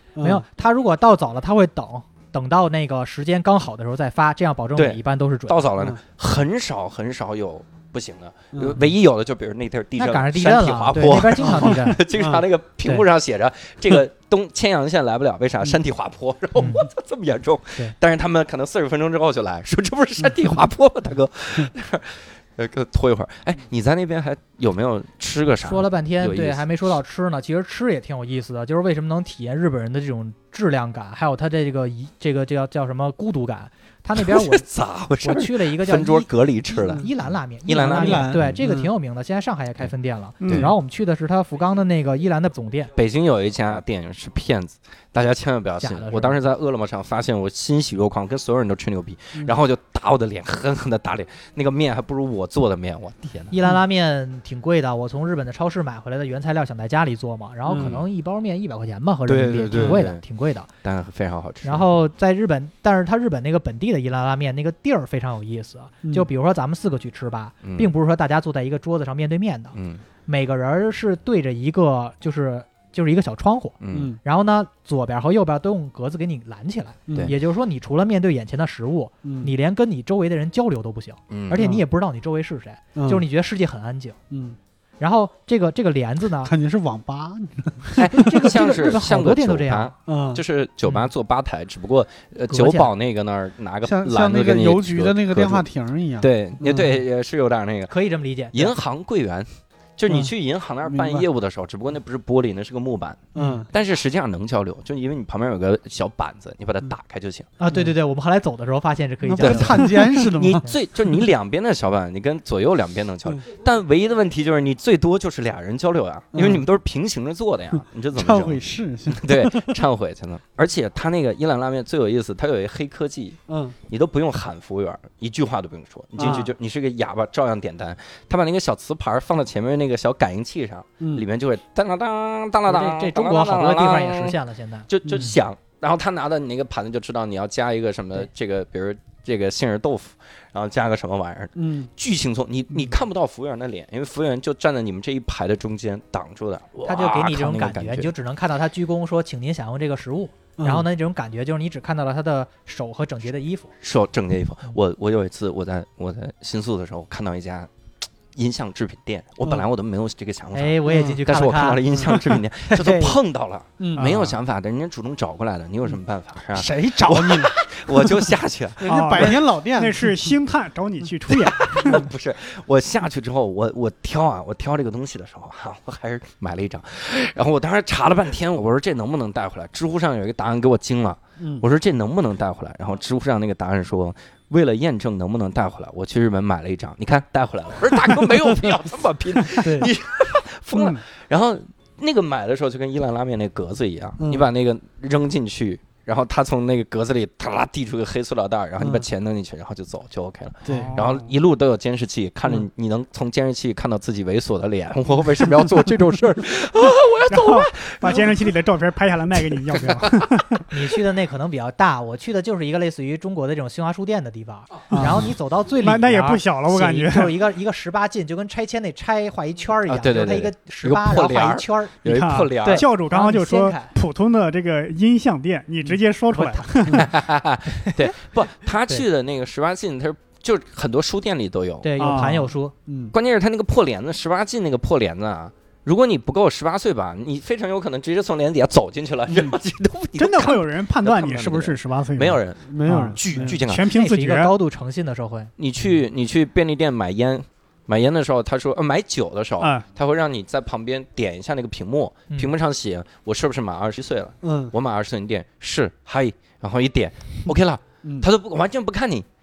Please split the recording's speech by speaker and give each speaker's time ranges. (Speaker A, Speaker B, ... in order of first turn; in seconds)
Speaker A: 0.1-0.4, 8.5-8.8, 11.4-12.4, 37.8-38.9, 57.7-58.0, 59.7-60.0, 73.9-74.2, 77.1-77.3, 79.2-79.5, 81.6-81.8, 83.0-83.2, 84.3-84.6, 86.4-88.4, 90.1-90.4, 93.8-96.9, 100.8-101.2, 103.3-103.7, 109.3-110.7, 116.3-116.6, 118.1-119.8, 123.5-123.8, 126.2-126.5, 131.0-131.2, 141.6-141.9, 150.6-150.8, 160.9-161.2, 162.0-163.2, 163.8-164.1, 166.5-170.3, 181.4-181.6, 189.6-189.9, 194.2-194.5, 198.8-199.0, 200.6-201.0, 232.9-233.1, 242.6-243.6, 254.4-254.7
Speaker B: 0.2-5.7, 10.0-12.0, 16.6-16.9, 25.6-34.6, 35.2-42.9, 45.8-46.4, 53.5-60.7, 61.6-84.2, 85.0-86.5, 88.1-89.9, 92.5-92.9, 97.9-98.7, 103.3-103.7, 107.6-109.9, 132.7-135.3, 146.8-153.7, 160.5-162.2, 210.7-222.0, 222.6-223.9, 226.3-226.8, 227.8-228.1, 231.8-232.7, 242.9-243.2, 243.9-245.5
Speaker C: 4.8-26.6, 34.1-37.1, 37.6-38.6, 40.4-40.7, 42.9-53.5, 57.7-58.0, 59.3-60.2, 60.8-61.9, 67.6-67.9, 69.7-70.0, 73.8-74.2, 81.3-81.6, 88.0-95.7, 96.2-97.9, 98.5-107.5, 109.4-148.1, 153.8-157.7, 158.3-168.9, 171.3-208.5, 209.4-210.6, 219.9-222.8, 226.9-232.3, 233.1-243.9, 245.6-259.3
Speaker D: 40.4-40.7, 163.9-164.3, 168.8-172.0, 190.8-191.0, 200.7-201.3, 207.3-210.6, 214.9-217.4, 222.0-227.0, 232.0-232.5, 240.2-242.4, 243.3-244.5